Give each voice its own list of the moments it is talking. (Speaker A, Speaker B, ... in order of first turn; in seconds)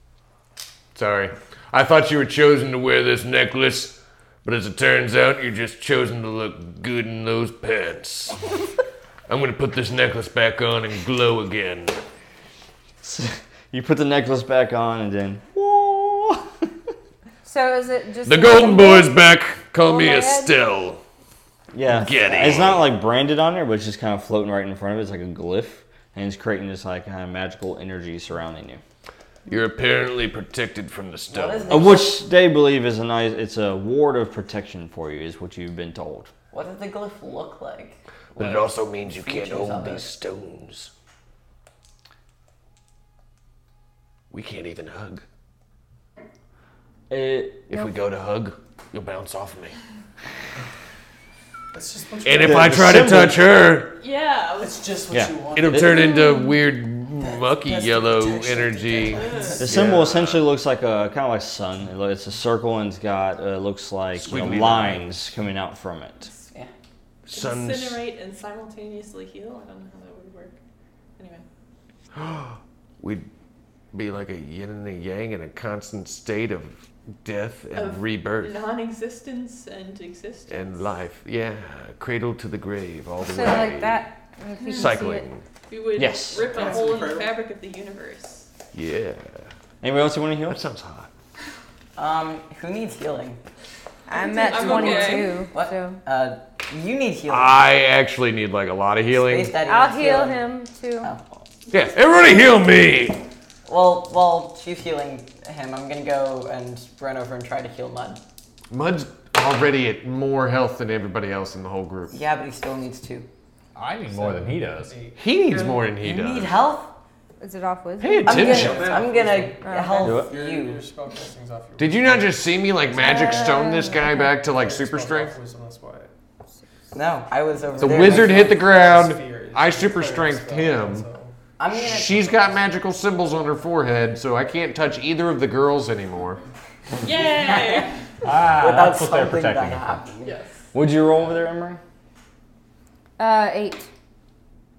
Speaker A: 0.9-8.4, 9.3-12.0, 18.2-21.0, 21.9-22.9, 29.5-31.9, 38.3-40.9, 44.3-45.2, 47.7-49.8, 52.2-53.9, 55.5-60.4, 64.2-65.2, 67.3-68.0, 72.1-73.3, 73.9-78.6, 80.5-84.0, 84.7-85.4, 88.7-89.5, 90.5-91.1, 97.3-99.5, 101.7-103.2, 108.7-112.1, 115.2-116.5, 118.0-119.0, 121.8-125.3, 127.8-131.1, 131.7-136.4
Speaker B: 13.0-16.5, 21.7-28.8, 31.7-36.3, 47.1-47.7, 52.4-53.5, 55.1-56.0, 59.6-66.3, 86.0-86.5, 89.8-90.6, 120.0-120.3, 140.7-141.8
Speaker C: 17.4-19.2, 19.8-20.7, 83.2-85.2, 94.1-96.0, 99.7-101.1, 117.4-118.8, 119.6-120.1, 122.9-124.3, 143.2-143.9
Speaker D: 31.3-32.2, 36.5-40.1, 92.0-93.4, 94.5-97.7, 99.1-100.4, 103.7-108.2, 112.1-113.3, 116.0-116.9, 118.2-120.8, 126.9-128.6, 131.6-132.6, 137.0-140.3
Speaker E: 51.7-53.3, 54.6-56.2, 57.2-59.7, 86.4-87.3, 114.1-115.9, 118.3-122.5, 124.4-126.1, 127.7-131.3
Speaker F: 54.0-55.0, 55.9-56.6, 59.2-59.5, 67.3-70.5, 71.2-71.4, 77.7-80.9, 84.6-85.0, 85.7-88.5, 94.1-95.3, 137.0-137.9, 140.2-140.5
Speaker G: 113.7-114.9, 138.2-140.0